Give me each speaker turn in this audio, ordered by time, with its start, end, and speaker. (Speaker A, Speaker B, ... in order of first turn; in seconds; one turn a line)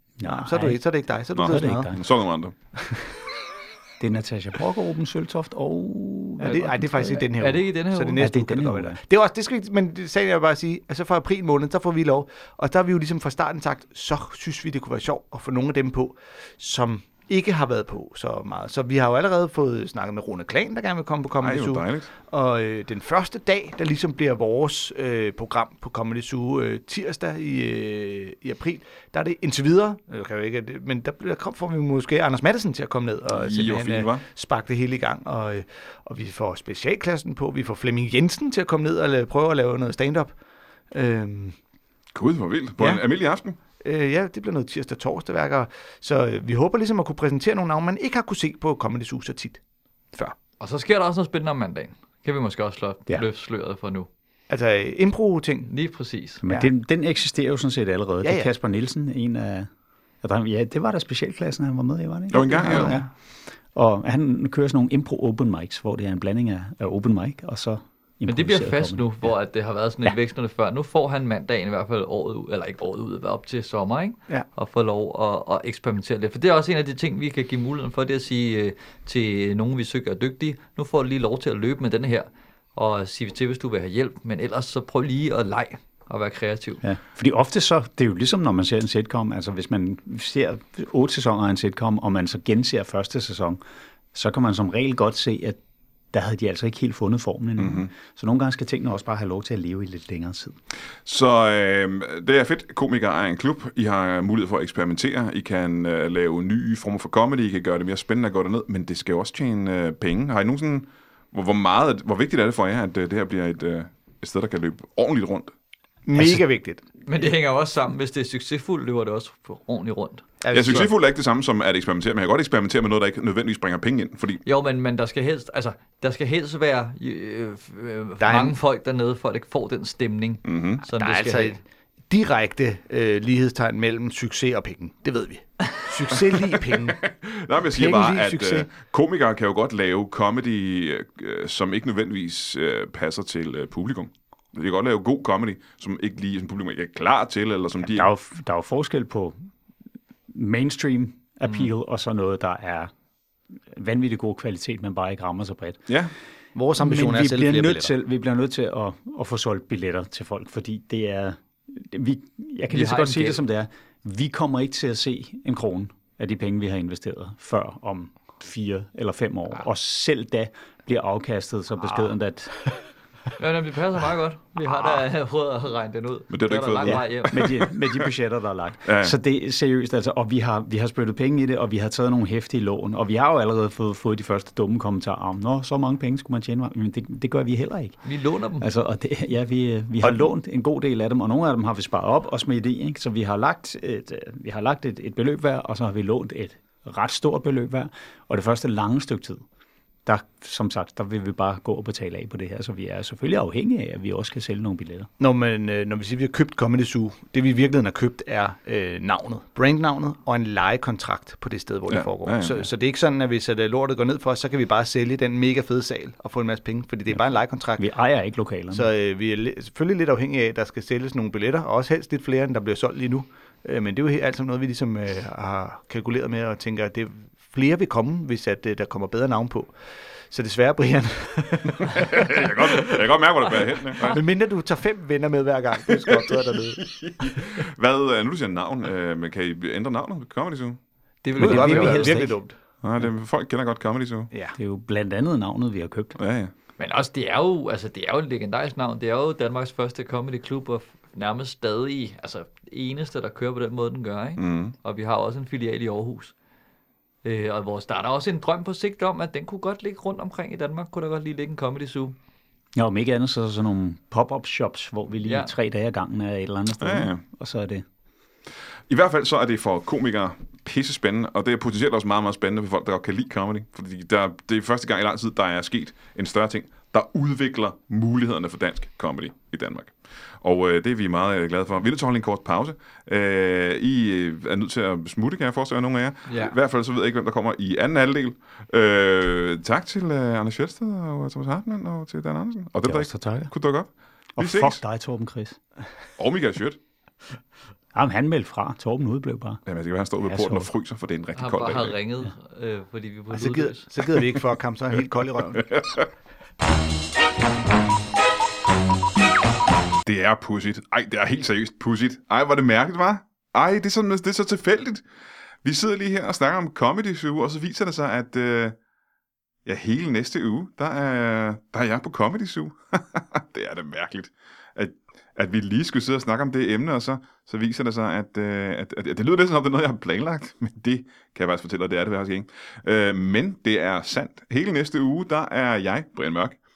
Speaker A: 0.2-0.8
Speaker B: 0.2-1.9
Speaker A: 1.3-2.0
Speaker C: 1.3-2.5
Speaker B: 2.8-3.0
Speaker A: 4.0-7.3
Speaker B: 6.4-40.3
Speaker D: 7.3-8.2
Speaker A: 8.2-9.0
Speaker C: 21.4-22.1
Speaker C: 33.3-34.2
Speaker B: 40.9-41.5
Speaker C: 42.1-43.6
Speaker B: 43.8-49.6
Speaker D: 50.6-54.1
Speaker B: 54.5-55.7
Speaker D: 55.7-56.4
Speaker A: 56.4-59.7
Speaker B: 56.4-56.7
Speaker B: 58.2-58.5
Speaker A: 60.2-63.1
Speaker C: 62.3-63.0
Speaker B: 62.7-63.0
Speaker A: 63.7-69.3
Speaker D: 68.3-86.8
Speaker A: 86.8-93.6
Speaker A: 94.1-95.6
Speaker A: 96.1-100.6
Speaker C: 97.6-97.9
Speaker C: 101.0-115.5
Speaker B: 116.0-116.8
Speaker A: 116.1-116.4
Speaker D: 117.0-120.8
Speaker B: 120.4-120.9
Speaker C: 120.5-124.4
Speaker D: 124.4-131.6
Speaker B: 128.2-128.6
Speaker C: 130.4-130.8
Speaker B: 130.9-137.0
Speaker C: 136.7-148.1
Speaker B: 137.6-138.7
Speaker A: 147.8-149.3
Speaker A: 150.3-152.9
Speaker A: 153.7-155.9
Speaker C: 155.9-156.1
Speaker B: 156.5-157.9
Speaker A: 156.8-172.6
Speaker D: 162.7-163.4
Speaker D: 173.4-177.5
Speaker C: 176.3-177.7
Speaker A: 176.8-188.0
Speaker C: 178.8-179.2
Speaker D: 188.0-188.7
Speaker A: 188.6-199.4
Speaker A: 200.1-205.1
Speaker B: 205.2-217.8
Speaker C: 211.9-212.7
Speaker A: 217.8-218.9
Speaker B: 218.7-229.8
Speaker B: 230.3-232.8
Speaker C: 231.8-234.2
Speaker B: 234.0-236.8
Speaker C: 235.9-240.8
Speaker D: 241.2-242.2
Speaker A: 241.3-242.4
Speaker B: 241.3-242.6
Speaker C: 242.8-244.3
Speaker B: 244.3-244.6
Speaker A: 244.6-246.2
Speaker C: 246.2-246.5
Speaker D: 246.8-256.3
Speaker C: 254.4-254.7
Speaker D: 257.2-262.1
Speaker A: 262.8-267.8
Speaker D: 265.2-265.5
Speaker C: 266.8-267.2
Speaker C: 268.9-294.8
Speaker D: 286.3-286.5
Speaker A: 292.8-293.5
Speaker A: 294.4-295.6
Speaker C: 296.2-296.8
Speaker A: 297.9-299.6
Speaker C: 299.6-302.0
Speaker A: 300.2-300.7
Speaker D: 301.4-303.9
Speaker B: 303.3-305.7
Speaker C: 305.5-306.1
Speaker C: 310.0-315.0
Speaker C: 315.6-318.8
Speaker C: 319.6-336.6